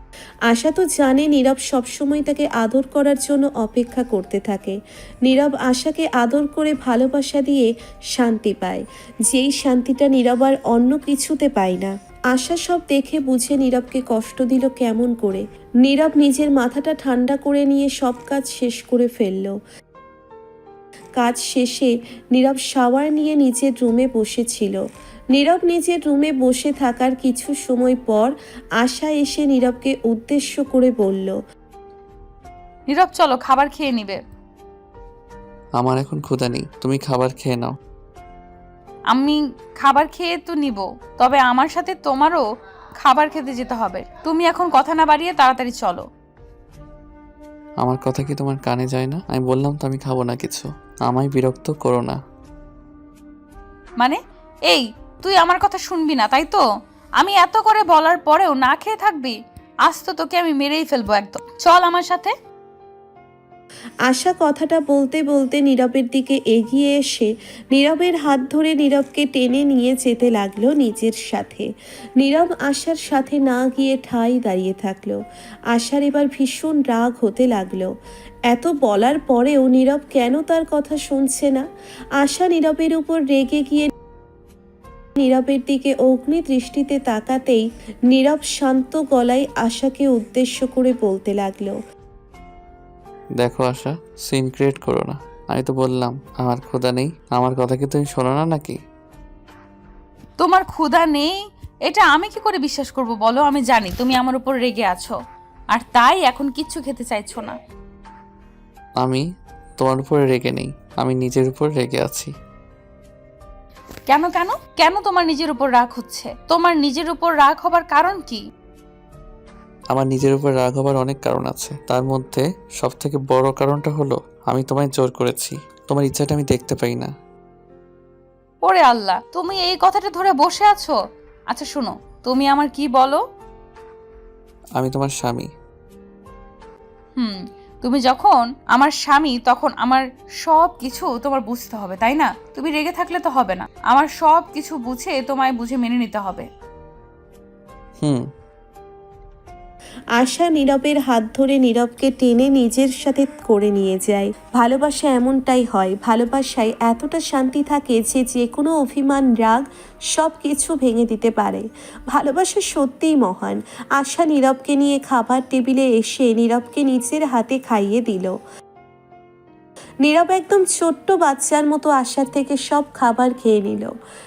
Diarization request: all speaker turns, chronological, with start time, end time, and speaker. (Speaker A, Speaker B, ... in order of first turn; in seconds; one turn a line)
Speaker A: 0.5-19.6
Speaker A: 21.2-24.8
Speaker A: 25.3-31.4
Speaker B: 32.9-34.2
Speaker C: 35.8-37.7
Speaker B: 39.1-42.4
Speaker B: 43.0-46.0
Speaker C: 47.8-52.2
Speaker B: 54.7-56.6
Speaker B: 57.2-59.3
Speaker B: 59.9-62.3
Speaker A: 64.1-75.2
Speaker A: 75.7-77.9
Speaker A: 78.5-81.7
Speaker A: 82.2-83.9
Speaker A: 85.2-91.8
Speaker C: 93.4-98.8
Speaker B: 100.4-101.3
Speaker B: 101.9-105.2
Speaker B: 105.7-107.5
Speaker C: 109.8-112.3
Speaker B: 114.1-118.4
Speaker C: 119.9-127.1
Speaker B: 128.6-130.9
Speaker B: 131.5-133.2
Speaker C: 134.8-135.5
Speaker B: 137.2-146.4
Speaker A: 150.2-168.4
Speaker A: 170.0-173.9